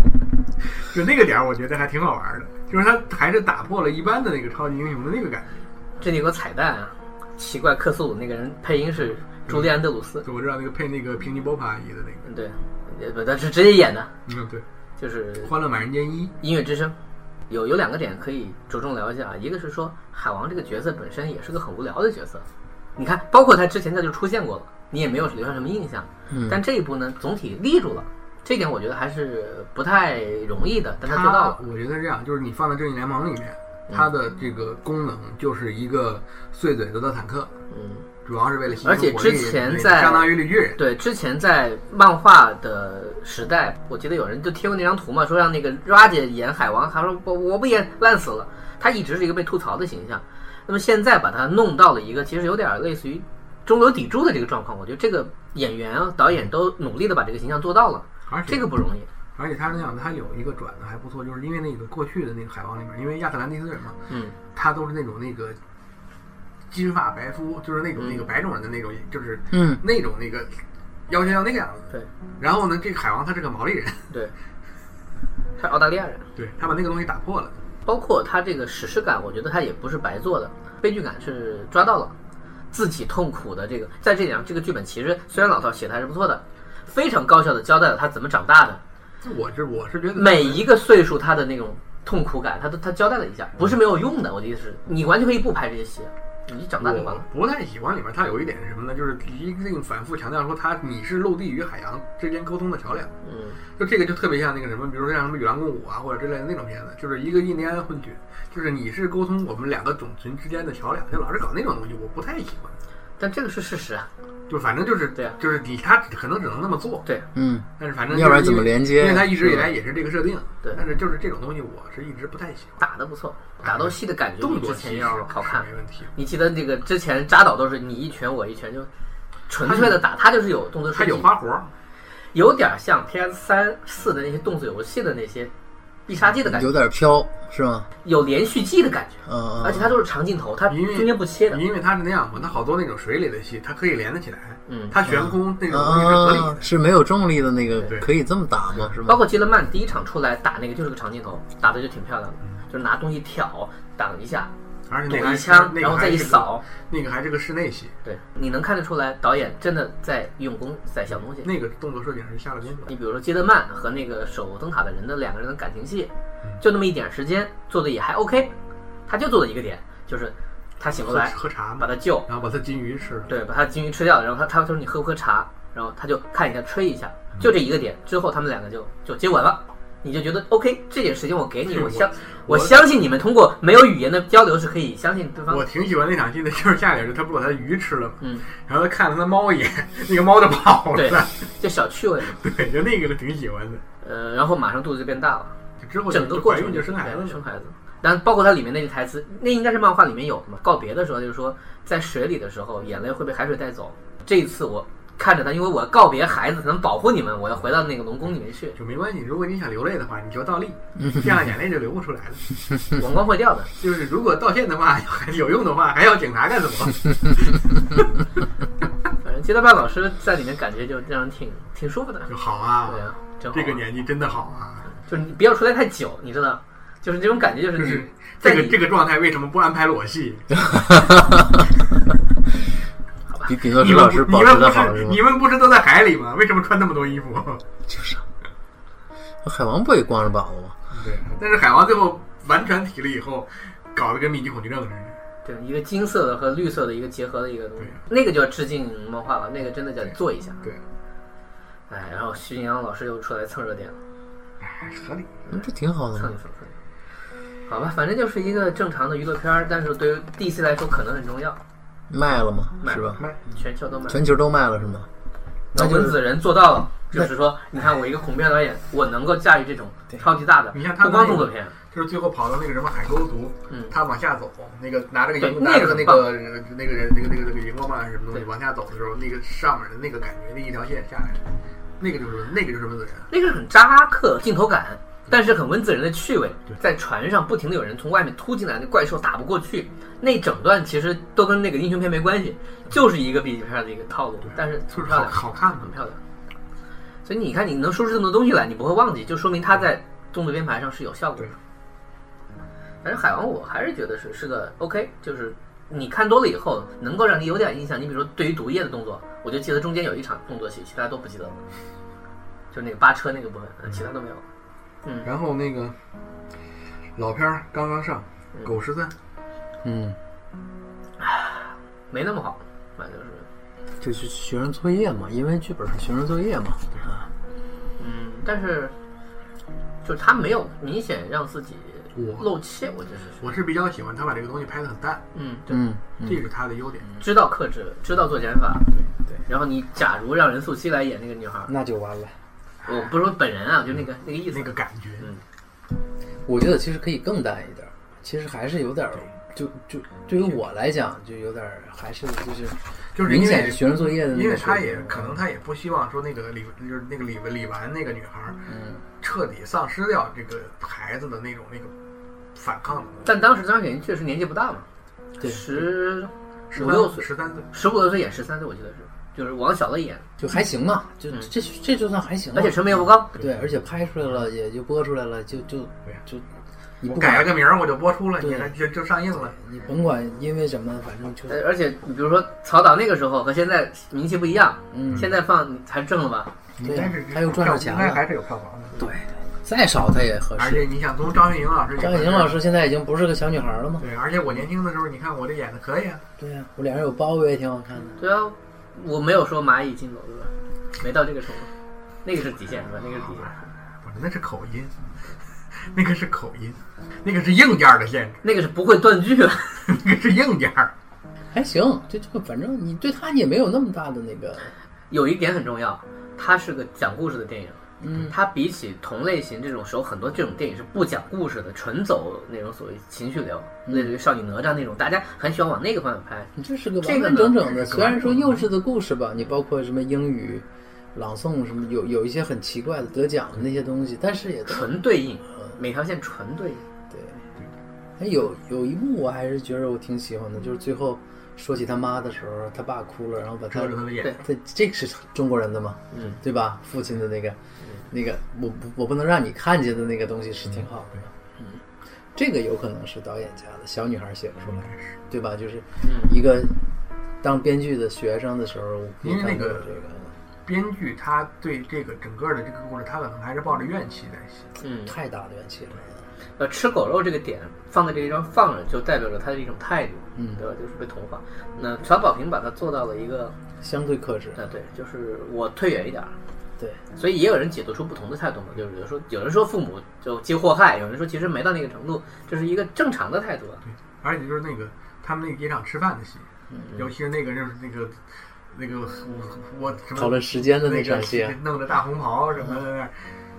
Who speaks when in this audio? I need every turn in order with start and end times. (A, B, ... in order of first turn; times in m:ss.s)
0:00.8-0:05.6 A
0:06.0-0:10.2 B
0:09.4-0:12.2 A
0:12.2-0:14.1 B
0:14.3-0:14.6 A
0:15.0-0:15.5 B
0:15.4-0:16.3 A
0:16.4-0:16.9 B
0:17.5-0:22.4 B
0:23.0-0:31.6 B
0:26.3-0:26.6 C
0:31.0-0:37.5 A
0:37.7-0:38.0 B
0:38.2-0:40.8 A
0:38.8-0:59.1 B
0:58.3-0:58.7 A
0:59.3-1:04.0 A
1:04.1-1:04.4 B
1:04.5-1:05.6 A
1:06.7-1:14.1 A
1:08.0-1:08.2 B
1:09.5-1:09.8 C
1:15.6-1:16.2 B
1:16.4-1:17.5 A
1:17.8-1:22.1 B
1:22.7-1:28.8 B
1:29.2-1:30.7 A
1:30.1-1:37.2 B
1:36.8-1:43.1 A
1:43.2-1:43.6 B
1:43.8-1:52.8 A
1:53.2-1:54.1 B
1:54.5-1:57.0 A
1:57.3-1:59.6 C
1:57.8-2:02.7 A
2:02.8-2:08.9 B
2:03.6-2:06.1 A
2:09.5-2:11.3 B
2:09.6-2:10.0 A
2:10.9-2:11.7 A
2:12.3-2:15.5 B
2:16.1-2:16.7 B
2:16.4-2:17.9 C
2:18.0-2:21.6 B
2:19.3-2:20.0 C
2:20.7-2:26.6 A
2:24.7-2:25.0 B
2:25.0-2:29.2 C
2:27.8-2:28.1 A
2:29.0-2:34.5 B
2:34.9-2:37.9 A
2:35.1-2:36.6 B
2:38.0-2:41.5 B
2:41.4-2:43.0 A
2:42.9-2:48.5 B
2:49.1-2:52.2 B
2:51.0-2:53.3 A
2:53.3-3:05.6 B
3:01.7-3:02.9 A
3:05.5-3:11.5 A
3:08.2-3:08.5 B
3:10.9-3:12.4 B
3:12.2-3:13.8 A
3:14.0-3:15.5 B
3:15.8-3:17.4 A
3:16.1-3:28.8 B
3:28.8-3:32.4 A
3:33.0-3:33.7 B
3:33.8-3:38.0 A
3:39.2-3:42.3 B
3:42.3-3:44.9 A
3:42.8-3:43.8 B
3:45.0-3:48.8 B
3:47.8-3:50.6 A
3:50.7-3:51.6 C
3:53.4-3:55.2 C
3:53.7-3:57.6 A
3:57.9-3:58.2 C
3:59.4-4:00.8 C
4:00.9-4:05.2 A
4:05.4-4:10.6 B
4:10.0-4:10.8 A
4:11.9-4:14.0 B
4:14.6-4:15.3 A
4:15.5-4:16.7 B
4:15.5-4:16.4 C
4:17.7-4:21.6 B
4:22.1-4:23.2 C
4:22.8-4:24.2 B
4:24.1-4:25.1 C
4:25.7-4:31.7 B
4:25.7-4:26.2 C
4:30.7-4:41.4 A
4:35.4-4:36.3 B
4:42.0-4:43.3 A
4:43.3-4:56.2 B
4:54.4-4:55.9 A
4:57.2-5:01.5 B
5:03.0-5:11.6 B
5:12.7-5:14.4 B
5:15.2-5:16.0 A
5:17.2-5:19.1 A
5:19.8-5:20.2 C
5:21.2-5:23.4 B
5:24.0-5:27.3 C
5:28.0-5:28.9 B
5:30.0-5:33.4 B
5:32.1-5:32.5 A
5:33.4-5:35.2 A
5:35.3-5:35.7 B
5:35.7-5:36.4 C
5:36.2-5:37.2 A
5:37.2-5:38.9 B
5:39.5-5:41.7 B
5:41.7-5:42.3 C
5:42.8-5:45.4 B
5:44.5-5:45.3 A
5:46.4-5:55.4 C
5:53.1-5:58.6 A
5:58.7-5:59.0 C
5:59.2-6:01.9 A
6:02.5-6:03.3 A
6:03.2-6:04.8 B
6:05.4-6:10.2 B
6:06.7-6:07.7 A
6:10.4-6:16.4 C
6:12.5-6:13.4 B
6:13.4-6:13.7 A
6:17.0-6:17.6 C
6:17.0-6:19.6 A
6:18.4-6:18.7 C
6:19.5-6:21.6 C
6:21.5-6:26.5 B
6:24.9-6:25.3 C
6:26.8-6:29.0 A
6:26.8-6:28.2 C
6:29.0-6:30.9 C
6:30.6-6:32.6 A
6:32.0-6:34.1 C
6:34.0-6:36.2 A
6:36.4-6:38.2 C
6:38.2-6:41.7 B
6:42.2-6:43.5 B
6:44.0-6:44.9 A
6:45.8-6:48.4 A
6:48.4-6:49.8 B
6:49.9-6:50.9 A
6:51.5-6:54.7 C
6:55.1-7:07.7 B
6:58.0-6:58.3 C
7:03.8-7:04.1 C
7:06.6-7:15.0 C
7:07.7-7:08.6 A
7:14.6-7:16.8 B
7:17.1-7:17.4 C
7:18.2-7:27.6 C
7:23.7-7:24.4 A
7:26.1-7:26.4 B
7:28.1-7:31.3 C
7:32.3-7:36.8 C
7:34.7-7:35.1 A
7:36.0-7:36.3 B
7:37.4-7:40.3 C
7:39.2-7:40.0 A
7:40.6-7:44.7 A
7:44.8-7:45.1 B
7:45.0-7:46.2 C
7:46.6-7:53.5 B
7:50.3-7:50.6 C
7:53.8-7:54.6 C
7:54.6-7:56.3 B
7:57.1-8:03.8 B
8:03.9-8:08.2 A
8:08.7-8:13.2 A
8:10.1-8:11.6 C